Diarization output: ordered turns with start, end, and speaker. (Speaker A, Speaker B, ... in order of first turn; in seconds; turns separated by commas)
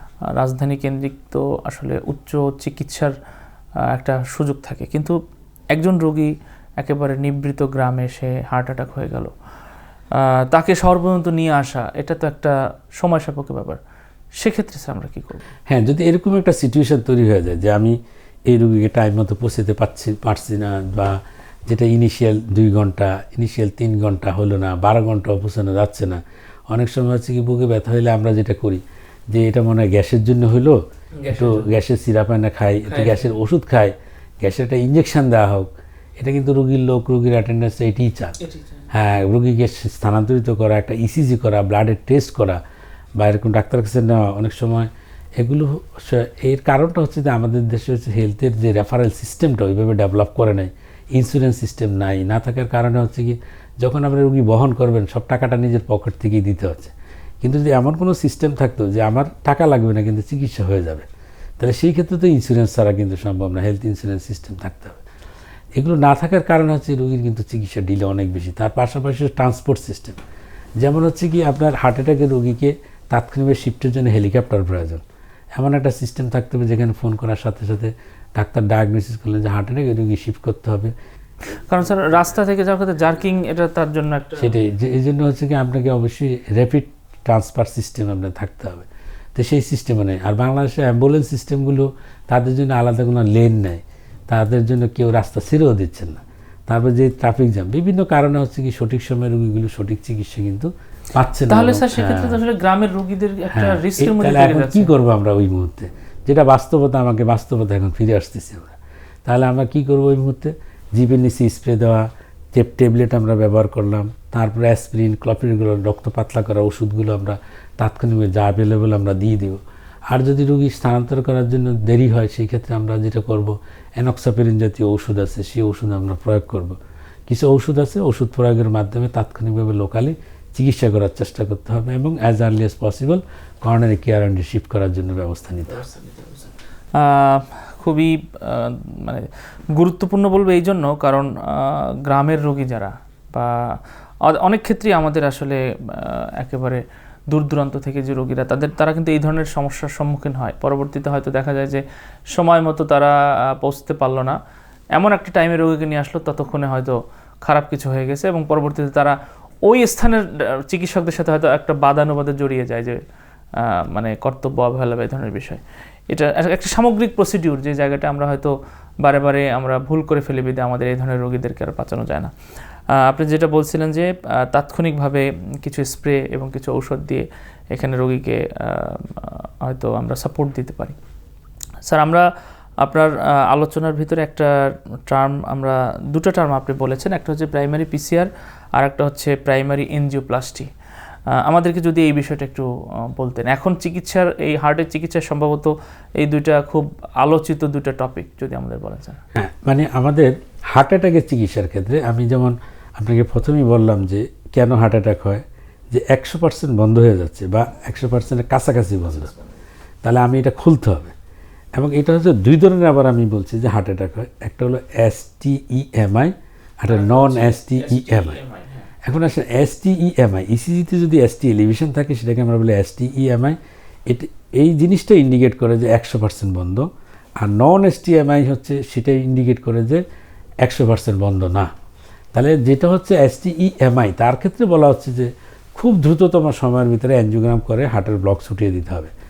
Speaker A: 0.2-3.1, Speaker A: 3.8-5.2, Speaker A: 5.7-9.3, Speaker A: 10.1-13.8, Speaker A: 14.4-15.5, Speaker B: 15.7-18.0, Speaker B: 18.5-38.3, Speaker A: 31.2-31.7, Speaker A: 32.9-33.2, Speaker A: 38.4-38.9, Speaker B: 38.9-42.6, Speaker B: 43.2-61.1, Speaker B: 61.6-65.0, Speaker B: 65.8-70.2, Speaker B: 70.8-75.0, Speaker B: 75.5-80.9, Speaker A: 81.5-84.6, Speaker B: 84.4-102.4, Speaker A: 101.5-104.9, Speaker B: 103.5-108.7, Speaker B: 109.2-135.9, Speaker A: 135.7-154.4, Speaker A: 154.9-163.0, Speaker A: 163.6-172.3, Speaker A: 172.9-180.9, Speaker A: 181.8-182.2, Speaker A: 182.8-190.7, Speaker A: 191.3-199.2, Speaker B: 199.3-209.3, Speaker B: 210.0-211.1, Speaker B: 211.7-218.4, Speaker A: 216.9-218.8, Speaker B: 219.0-223.6, Speaker B: 224.1-226.9, Speaker B: 227.4-230.0, Speaker B: 230.6-231.7, Speaker B: 232.3-239.1